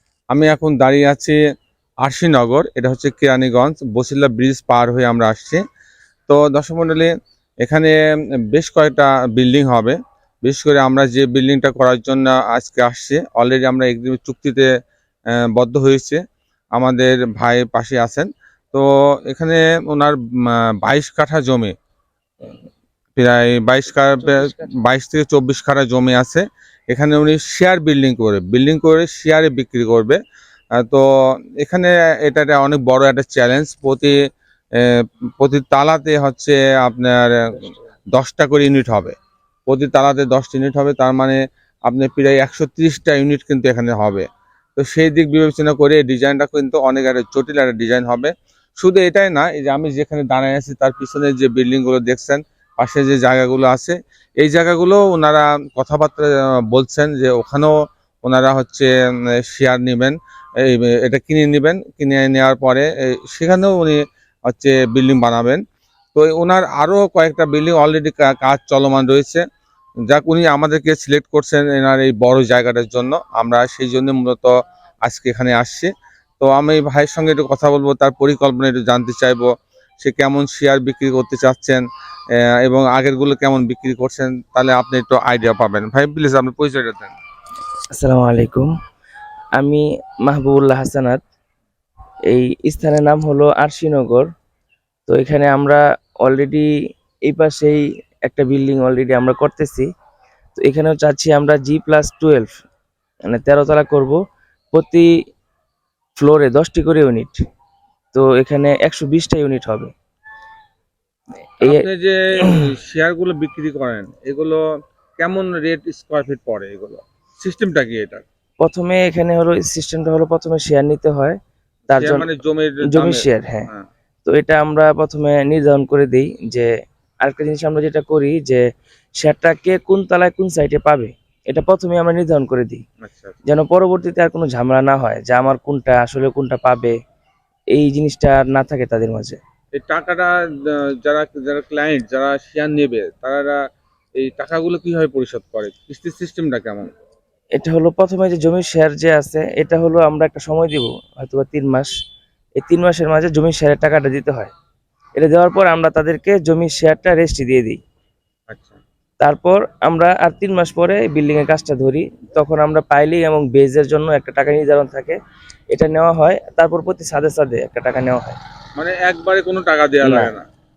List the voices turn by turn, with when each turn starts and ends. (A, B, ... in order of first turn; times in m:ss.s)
0:00.3-0:01.4 A
0:02.0-0:05.6 A
0:06.3-0:07.1 A
0:07.6-0:08.0 A
0:08.5-0:14.7 A
0:15.4-0:16.2 A
0:16.8-0:21.7 A
0:23.2-0:30.2 A
0:24.2-0:24.7 B
0:30.8-0:31.0 A
0:31.6-0:34.2 A
0:34.8-0:39.2 A
0:39.7-0:44.2 A
0:44.8-0:57.7 A
0:58.2-0:58.9 A
0:59.4-1:05.6 A
1:06.2-1:09.4 A
1:10.1-1:14.5 A
1:15.0-1:19.5 A
1:20.0-1:21.8 A
1:22.6-1:27.2 A
1:28.0-1:28.7 B
1:29.6-1:31.2 B
1:32.3-1:34.3 B
1:35.1-1:36.7 B
1:37.2-1:39.9 B
1:40.6-1:42.5 B
1:43.3-1:44.2 B
1:44.7-1:45.1 B
1:46.2-1:47.4 B
1:48.1-1:49.9 B
1:51.6-1:54.6 A
1:55.2-1:58.2 A
1:58.6-2:01.4 B
2:01.9-2:03.7 B
2:01.9-2:03.9 A
2:04.2-2:06.7 B
2:07.2-2:08.6 B
2:09.2-2:12.8 B
2:13.0-2:13.4 A
2:13.5-2:17.0 B
2:17.7-2:19.4 B
2:19.8-2:20.3 A
2:20.9-2:23.6 A
2:24.2-2:26.9 A
2:27.6-2:31.9 B
2:32.6-2:34.5 B
2:35.2-2:37.8 B
2:38.5-2:38.8 A
2:39.2-2:45.2 B
2:45.7-2:48.4 B
2:48.8-2:50.4 A
2:50.0-2:50.3 B